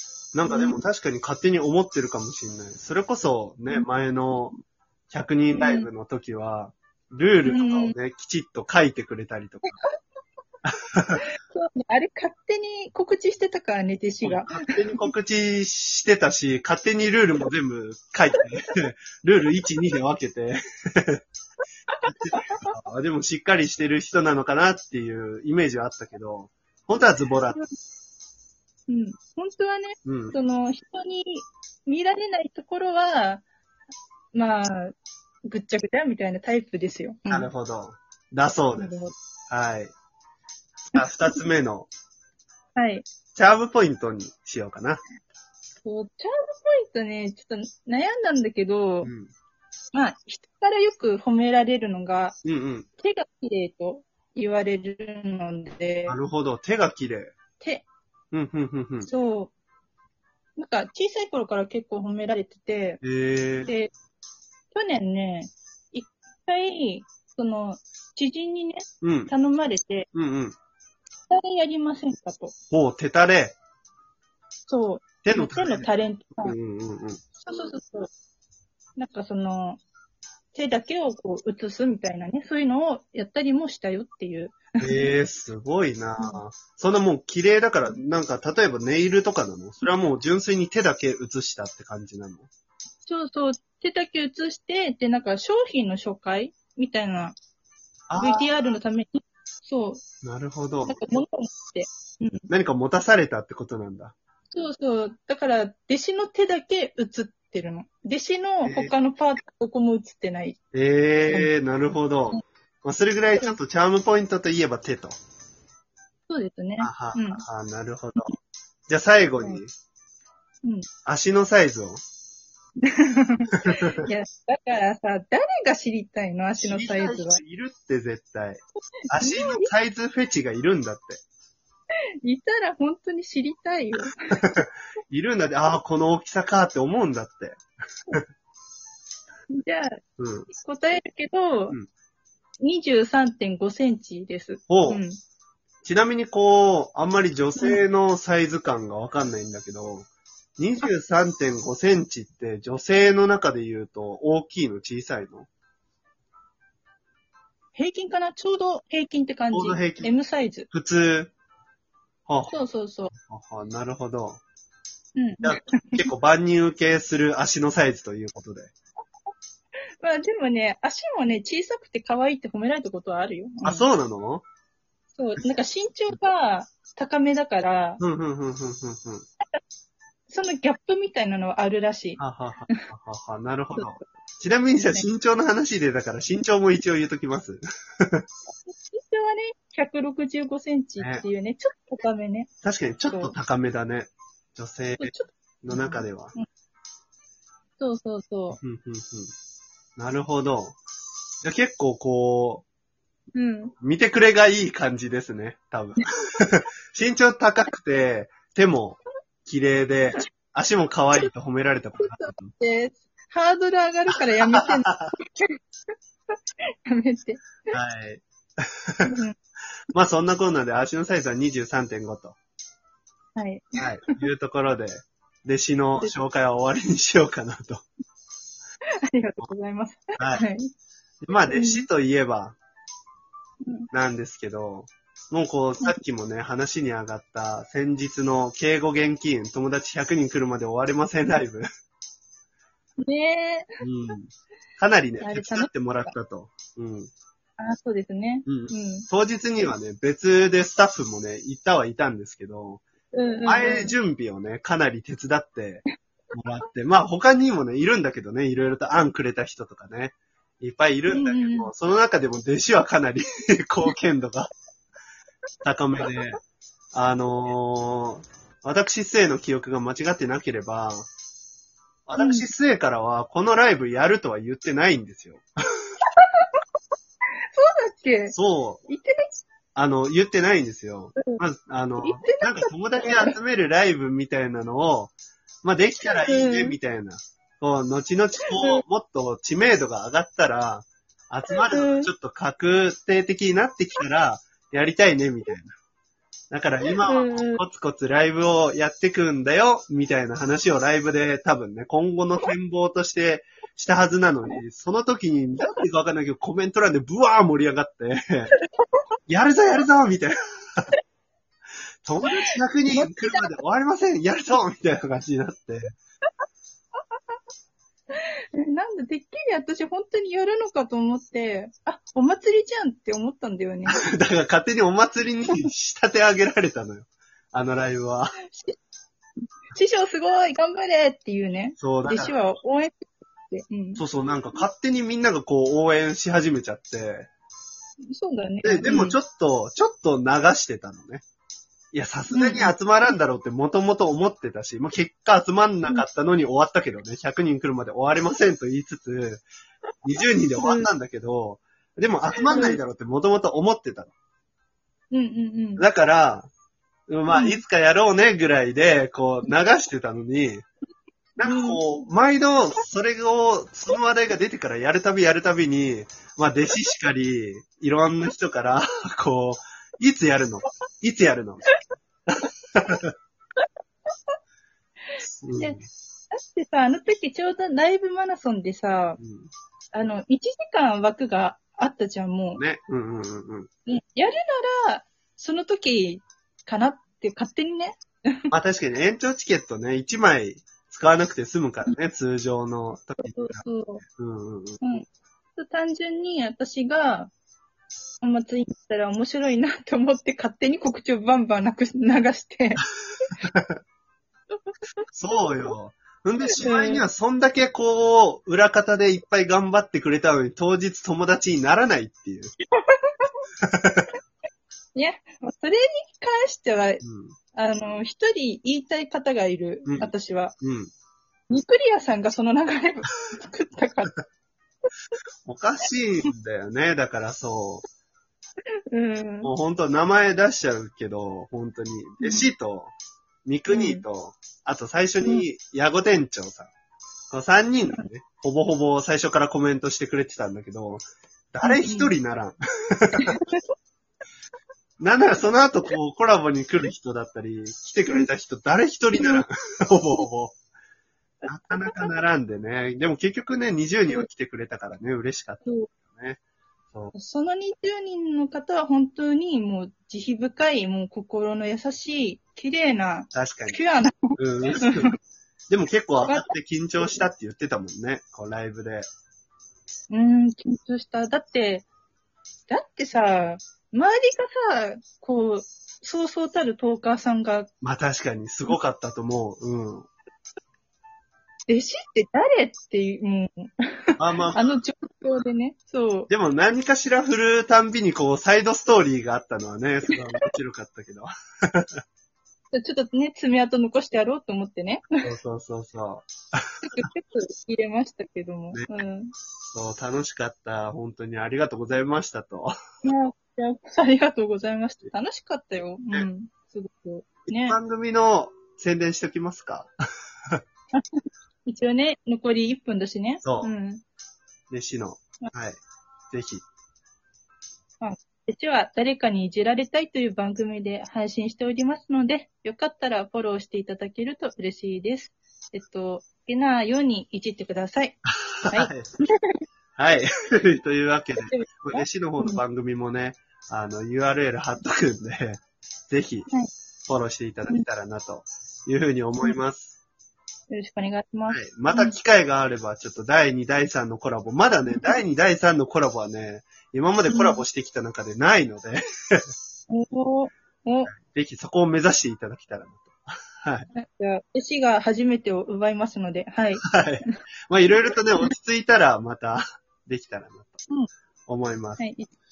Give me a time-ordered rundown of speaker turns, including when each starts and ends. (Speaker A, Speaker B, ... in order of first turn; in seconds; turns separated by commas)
Speaker A: 0.3-4.5, Speaker B: 0.5-0.8, Speaker A: 5.1-9.8, Speaker B: 5.5-5.9, Speaker B: 7.4-7.9, Speaker A: 10.7-11.2, Speaker B: 11.5-15.1, Speaker A: 14.2-21.2, Speaker B: 21.9-22.7, Speaker A: 22.0-27.6, Speaker B: 28.9-33.4, Speaker A: 30.0-30.4, Speaker B: 34.3-34.9, Speaker B: 35.4-37.5, Speaker A: 37.3-39.9, Speaker B: 38.8-39.1, Speaker A: 40.9-41.9, Speaker B: 40.9-41.3, Speaker B: 42.7-43.0, Speaker A: 43.3-45.0, Speaker B: 45.8-49.1, Speaker A: 49.0-49.3, Speaker B: 49.9-52.4, Speaker A: 52.4-52.9, Speaker B: 53.0-56.2, Speaker A: 56.1-57.4, Speaker B: 57.6-57.9, Speaker A: 58.3-59.1, Speaker B: 59.0-59.5, Speaker B: 60.6-63.0, Speaker A: 63.0-63.7, Speaker B: 63.6-63.9, Speaker B: 64.7-70.1, Speaker A: 69.0-69.3, Speaker A: 70.1-70.5, Speaker B: 71.3-72.5, Speaker A: 72.7-73.6, Speaker B: 74.7-76.5, Speaker A: 75.2-75.9, Speaker A: 76.4-77.2, Speaker B: 77.4-78.1, Speaker B: 79.0-79.8, Speaker B: 80.5-85.1, Speaker A: 84.8-92.5, Speaker B: 93.0-97.4, Speaker A: 98.1-98.5, Speaker B: 98.2-100.0, Speaker A: 100.2-101.2, Speaker B: 100.9-102.4, Speaker A: 102.5-104.1, Speaker B: 104.5-110.6, Speaker A: 108.6-108.9, Speaker A: 110.7-115.2, Speaker B: 116.3-117.4, Speaker A: 116.8-118.3, Speaker A: 118.9-119.7, Speaker A: 121.0-122.0, Speaker B: 122.8-127.4, Speaker A: 123.6-124.0, Speaker A: 126.6-131.2, Speaker B: 129.1-129.7, Speaker B: 132.2-134.6, Speaker A: 134.3-138.2, Speaker B: 139.5-140.0, Speaker A: 140.2-140.5, Speaker B: 140.5-141.8, Speaker B: 142.6-145.2, Speaker A: 144.7-145.0, Speaker A: 145.8-155.5, Speaker B: 157.7-160.7, Speaker A: 159.5-160.1, Speaker A: 160.7-161.3, Speaker A: 162.3-164.4, Speaker B: 162.5-163.1, Speaker B: 165.2-166.0, Speaker A: 165.4-168.7, Speaker B: 170.0-173.8, Speaker A: 173.6-174.4, Speaker B: 175.2-178.0, Speaker A: 178.0-179.3, Speaker B: 180.3-182.8, Speaker A: 182.2-188.2, Speaker B: 183.8-184.0, Speaker B: 188.5-192.5, Speaker A: 191.0-191.2, Speaker A: 192.6-196.3, Speaker B: 193.1-193.3, Speaker B: 195.0-196.4, Speaker B: 197.8-198.6, Speaker A: 198.5-199.3, Speaker A: 200.0-200.8, Speaker A: 201.4-202.6, Speaker B: 203.3-203.7, Speaker A: 203.8-212.5, Speaker B: 212.0-215.5, Speaker A: 214.4-215.1, Speaker B: 216.8-217.7, Speaker A: 217.7-218.2, Speaker A: 218.9-219.2, Speaker B: 219.1-219.3, Speaker A: 219.9-222.4, Speaker B: 223.3-224.2, Speaker A: 223.8-227.8, Speaker B: 229.1-230.7, Speaker A: 230.2-230.4, Speaker A: 231.2-232.6, Speaker B: 231.5-231.8, Speaker B: 233.6-233.9, Speaker A: 233.9-241.7, Speaker B: 243.0-243.7, Speaker A: 243.8-247.1, Speaker B: 245.2-245.9, Speaker B: 247.6-249.1, Speaker A: 248.5-252.8, Speaker B: 253.1-253.9, Speaker A: 253.4-264.5, Speaker B: 261.1-261.7, Speaker A: 265.6-266.4, Speaker A: 266.9-271.1, Speaker A: 272.1-275.4, Speaker B: 272.2-272.4, Speaker B: 276.2-276.4, Speaker B: 277.5-278.3, Speaker A: 278.3-278.9, Speaker B: 278.9-279.4, Speaker A: 279.7-295.7, Speaker B: 282.0-283.3, Speaker B: 286.0-286.8, Speaker B: 288.5-288.8, Speaker B: 291.6-292.1, Speaker A: 296.5-308.5, Speaker B: 296.9-297.6, Speaker A: 309.3-310.3, Speaker A: 312.0-315.9, Speaker B: 312.9-313.5, Speaker B: 318.1-324.0, Speaker A: 323.9-328.4, Speaker B: 328.5-328.8, Speaker B: 329.7-334.0, Speaker A: 331.8-332.4, Speaker A: 333.9-337.3, Speaker B: 338.1-339.2, Speaker A: 338.6-341.2, Speaker A: 341.9-349.4, Speaker B: 342.3-342.7, Speaker A: 350.0-354.1, Speaker B: 350.6-350.9, Speaker B: 352.3-352.8, Speaker B: 355.1-355.8, Speaker A: 355.8-356.5, Speaker A: 357.1-360.7, Speaker B: 357.3-357.6, Speaker A: 361.4-371.7, Speaker B: 361.4-361.8, Speaker A: 372.3-373.1, Speaker B: 375.1-375.8, Speaker A: 375.2-375.9, Speaker B: 376.3-379.2, Speaker A: 379.2-379.5, Speaker B: 379.9-382.6, Speaker A: 382.5-383.7, Speaker B: 383.9-388.4, Speaker A: 388.5-395.0, Speaker B: 393.2-394.0, Speaker B: 395.6-397.3, Speaker B: 398.2-402.8, Speaker A: 403.4-403.8, Speaker B: 404.6-405.7, Speaker A: 405.1-412.5, Speaker B: 406.6-407.0, Speaker B: 412.8-413.3, Speaker A: 413.6-414.1, Speaker B: 414.9-417.0, Speaker A: 417.0-417.4, Speaker B: 417.5-420.5, Speaker A: 419.9-420.9, Speaker B: 421.5-424.1, Speaker A: 425.4-427.8, Speaker B: 428.9-429.5, Speaker A: 429.4-432.9, Speaker B: 432.2-432.5, Speaker A: 433.4-436.7, Speaker B: 433.7-434.0, Speaker A: 437.3-443.4, Speaker B: 441.6-442.1, Speaker B: 443.2-443.6, Speaker A: 445.0-450.5, Speaker B: 449.2-449.4, Speaker A: 451.4-456.4, Speaker B: 451.7-452.1, Speaker B: 455.6-455.9, Speaker B: 457.1-465.1, Speaker A: 463.3-463.8, Speaker A: 464.4-465.1, Speaker A: 465.7-469.1, Speaker B: 466.2-466.5, Speaker B: 470.1-471.9, Speaker B: 472.7-477.7, Speaker A: 477.8-480.1, Speaker B: 481.7-484.0, Speaker A: 484.2-484.8, Speaker B: 484.5-486.3, Speaker A: 486.3-492.0, Speaker B: 490.1-490.4, Speaker B: 492.7-495.1, Speaker A: 495.2-496.7, Speaker B: 496.9-499.3, Speaker A: 499.7-502.7, Speaker B: 503.0-507.8, Speaker A: 507.5-509.9, Speaker B: 511.6-514.0, Speaker A: 513.4-513.7, Speaker A: 514.7-515.8, Speaker A: 516.3-516.6, Speaker B: 518.0-528.2, Speaker A: 528.6-529.1, Speaker B: 528.7-529.4, Speaker A: 530.0-536.5, Speaker B: 531.4-532.6, Speaker A: 537.1-540.0, Speaker B: 540.7-542.1, Speaker A: 541.5-549.4, Speaker B: 544.9-545.2, Speaker B: 547.3-547.6, Speaker B: 549.9-551.1, Speaker A: 551.1-553.9, Speaker B: 553.9-557.4, Speaker A: 556.8-560.9, Speaker B: 558.0-558.5, Speaker A: 561.5-562.0, Speaker B: 562.0-562.3